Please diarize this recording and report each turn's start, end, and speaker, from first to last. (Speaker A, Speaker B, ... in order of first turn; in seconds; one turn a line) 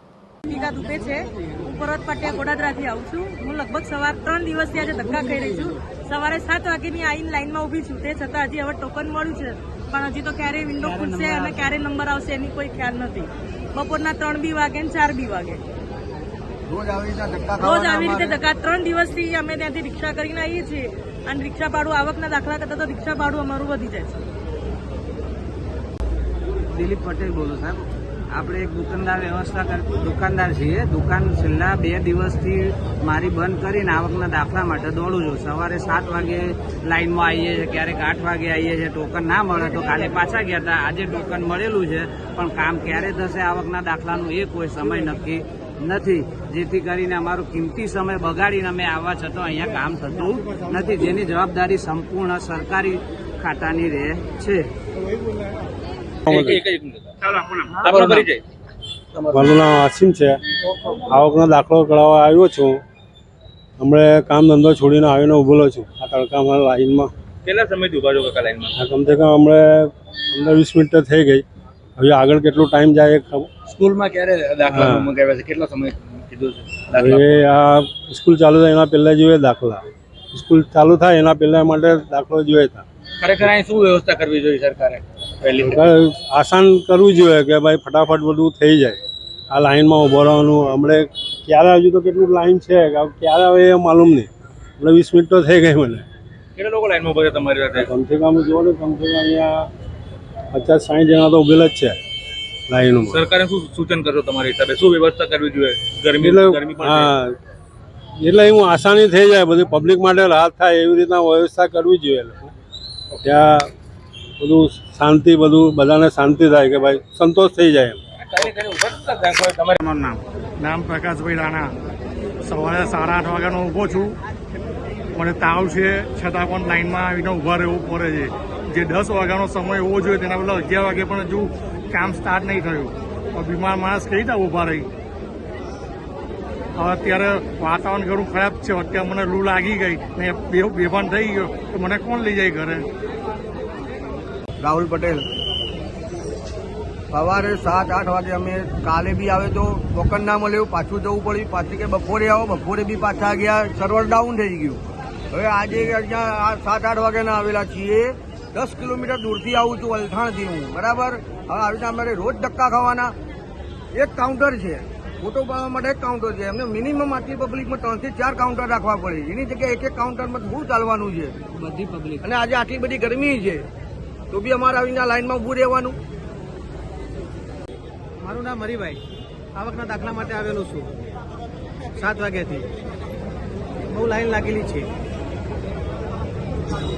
Speaker A: 0.5-15.6
Speaker B: 10.8-11.7
Speaker C: 16.7-18.4
Speaker A: 17.6-24.2
Speaker B: 26.7-54.7
Speaker D: 56.3-58.4
Speaker E: 56.3-56.6
Speaker E: 59.3-60.4
Speaker E: 61.1-62.8
Speaker E: 63.8-67.1
Speaker D: 67.5-68.7
Speaker E: 68.8-71.4
Speaker E: 72.0-73.5
Speaker D: 73.7-77.4
Speaker E: 74.7-75.1
Speaker E: 76.9-82.8
Speaker D: 83.2-85.8
Speaker E: 85.6-89.0
Speaker E: 89.5-96.0
Speaker D: 96.5-97.9
Speaker E: 97.8-99.7
Speaker E: 100.5-102.0
Speaker E: 102.7-103.2
Speaker D: 103.1-107.1
Speaker E: 106.2-107.3
Speaker E: 108.2-112.5
Speaker E: 113.2-113.7
Speaker E: 114.4-118.0
Speaker D: 118.2-120.1
Speaker F: 120.6-121.7
Speaker F: 122.4-124.2
Speaker F: 125.2-134.9
Speaker F: 136.8-142.9
Speaker C: 144.6-145.3
Speaker C: 147.1-163.1
Speaker C: 163.9-171.4
Speaker B: 171.6-172.2
Speaker C: 172.2-173.6
Speaker C: 174.3-175.9
Speaker G: 178.2-179.0
Speaker G: 179.6-180.9
Speaker G: 182.0-182.7
Speaker G: 183.9-184.9